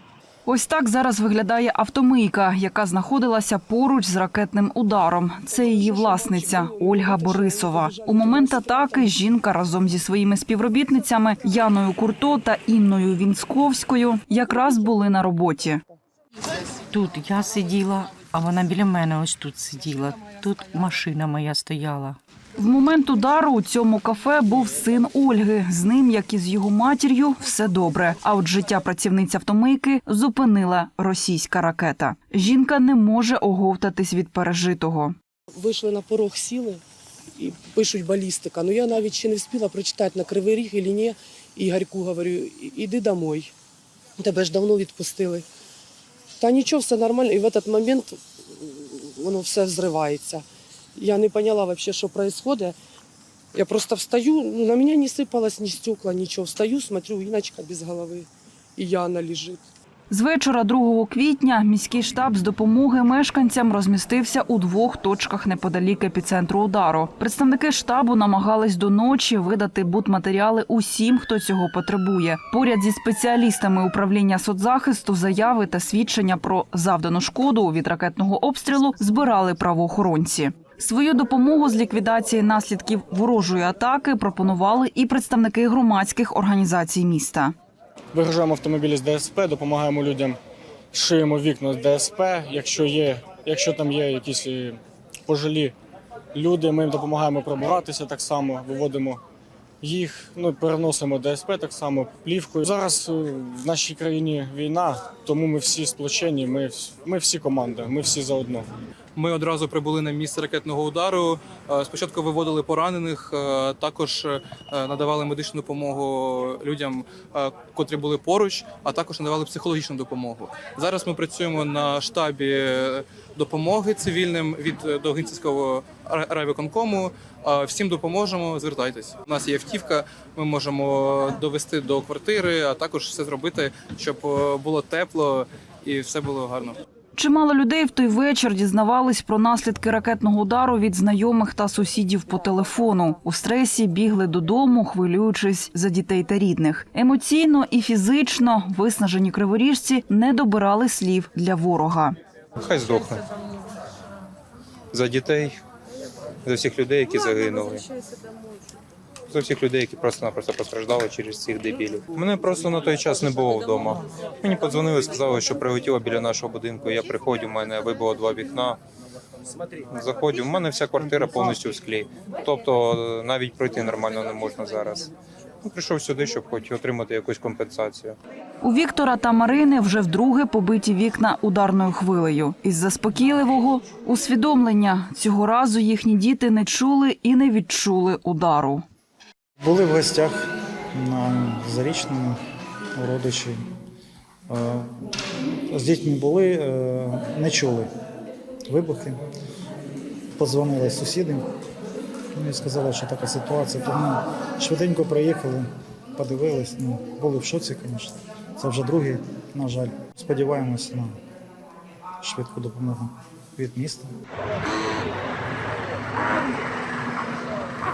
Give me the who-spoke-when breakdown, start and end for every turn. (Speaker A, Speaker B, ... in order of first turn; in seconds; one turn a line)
Speaker A: 0.5-15.8
Speaker B: 5.5-9.1
Speaker C: 16.9-22.2
Speaker A: 22.6-35.1
Speaker B: 35.6-36.8
Speaker B: 37.4-43.5
Speaker B: 44.2-45.5
Speaker B: 46.4-50.4
Speaker B: 51.0-52.8
Speaker B: 53.5-59.6
Speaker A: 60.1-87.5
Speaker D: 88.1-90.4
Speaker D: 90.9-95.7
Speaker D: 96.3-99.2
Speaker D: 99.8-108.7
Speaker E: 109.1-136.8
Speaker A: 137.2-152.2
Speaker F: 152.6-153.2
Speaker F: 154.9-155.6
Speaker F: 156.4-157.9
Speaker F: 159.3-168.8
Speaker F: 169.9-175.1
Speaker F: 175.6-178.2
Speaker A: 178.6-188.8
Speaker G: 189.6-192.4
Speaker G: 193.0-193.6
Speaker G: 194.5-194.9
Speaker G: 195.7-197.9
Speaker G: 198.7-199.2
Speaker G: 200.4-201.5
Speaker G: 202.3-211.1
Speaker G: 212.2-214.1